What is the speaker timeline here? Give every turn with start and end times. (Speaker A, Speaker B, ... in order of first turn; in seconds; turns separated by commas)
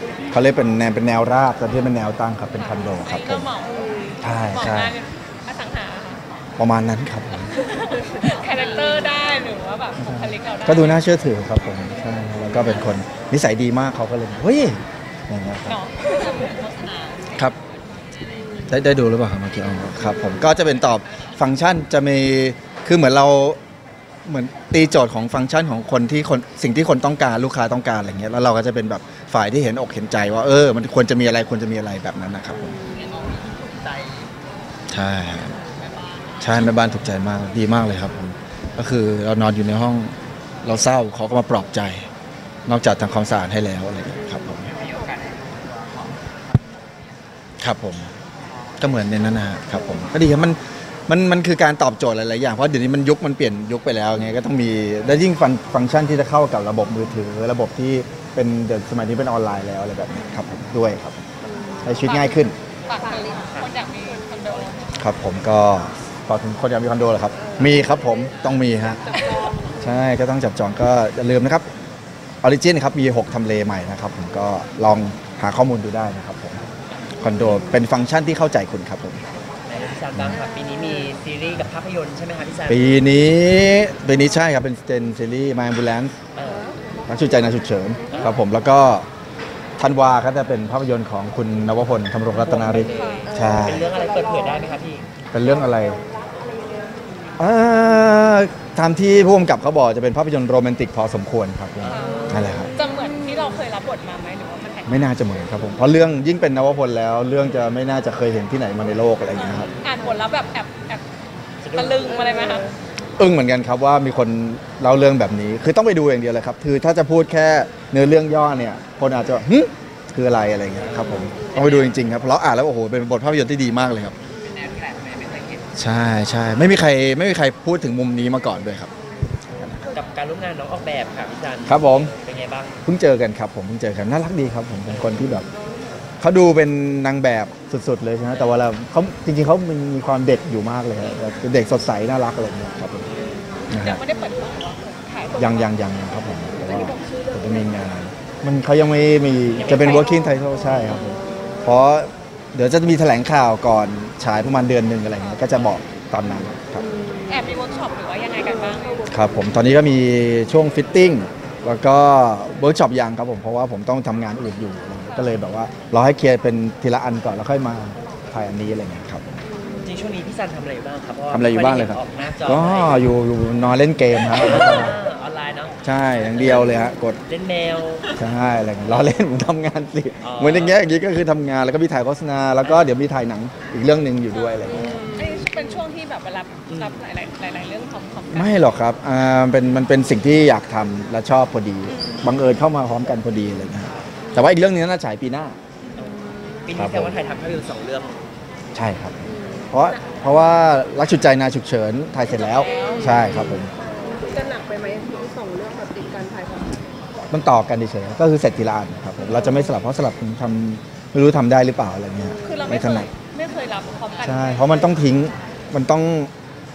Speaker A: 0.3-3.5, Speaker B: 2.5-6.2, Speaker A: 4.2-4.9, Speaker A: 6.6-7.6, Speaker B: 7.4-11.0, Speaker A: 10.0-15.8, Speaker B: 15.7-17.3, Speaker A: 18.7-23.6, Speaker A: 24.2-32.8, Speaker C: 32.9-33.2, Speaker A: 34.9-35.6, Speaker A: 36.4-42.1, Speaker A: 42.7-44.7, Speaker C: 44.8-45.2, Speaker A: 47.6-48.1, Speaker A: 48.8-61.2, Speaker C: 61.4-61.9, Speaker A: 61.8-62.5, Speaker B: 62.0-62.3, Speaker B: 62.9-64.9, Speaker C: 63.0-63.5, Speaker A: 65.0-69.0, Speaker C: 67.5-68.4, Speaker C: 69.1-69.7, Speaker A: 69.8-71.7, Speaker A: 72.4-76.6, Speaker A: 77.2-79.2, Speaker D: 79.7-83.0, Speaker A: 82.7-86.1, Speaker D: 86.3-86.7, Speaker A: 87.1-89.1, Speaker D: 88.1-88.4, Speaker A: 89.8-93.9, Speaker D: 92.3-95.1, Speaker B: 92.8-93.3, Speaker C: 93.3-94.7, Speaker A: 95.3-96.0, Speaker C: 95.4-97.3, Speaker A: 97.4-102.7, Speaker D: 101.8-102.5, Speaker B: 101.9-105.0, Speaker A: 104.9-109.7, Speaker D: 109.4-109.8, Speaker B: 109.8-111.0, Speaker D: 111.6-112.2, Speaker B: 111.7-112.7, Speaker A: 113.2-124.2, Speaker D: 120.8-122.0, Speaker D: 124.8-125.6, Speaker A: 125.7-128.9, Speaker A: 129.6-129.8, Speaker D: 129.9-132.8, Speaker A: 131.7-132.1, Speaker A: 132.8-135.5, Speaker D: 134.9-135.3, Speaker A: 136.2-143.1, Speaker D: 138.3-138.6, Speaker A: 143.7-144.0, Speaker B: 143.7-145.7, Speaker A: 145.4-156.8, Speaker C: 146.6-147.7, Speaker D: 149.6-150.1, Speaker B: 149.9-150.4, Speaker C: 151.0-151.5, Speaker B: 155.1-155.6, Speaker C: 156.9-157.3, Speaker B: 157.3-159.0, Speaker A: 159.1-169.2, Speaker D: 169.8-173.1, Speaker A: 171.3-175.0, Speaker D: 174.3-175.8, Speaker A: 175.8-177.2, Speaker D: 176.3-176.7, Speaker D: 177.3-178.1, Speaker A: 178.2-184.9, Speaker D: 180.2-180.8, Speaker D: 182.6-182.9, Speaker C: 184.7-185.6, Speaker B: 185.1-188.7, Speaker D: 186.7-187.0, Speaker A: 188.3-195.6, Speaker B: 191.9-192.2, Speaker D: 195.9-198.2, Speaker A: 196.7-197.1, Speaker A: 198.7-203.7, Speaker C: 199.3-199.8, Speaker B: 202.2-203.5, Speaker C: 203.1-206.8, Speaker A: 207.3-213.1, Speaker C: 212.4-212.6, Speaker B: 212.4-215.0, Speaker A: 214.2-216.3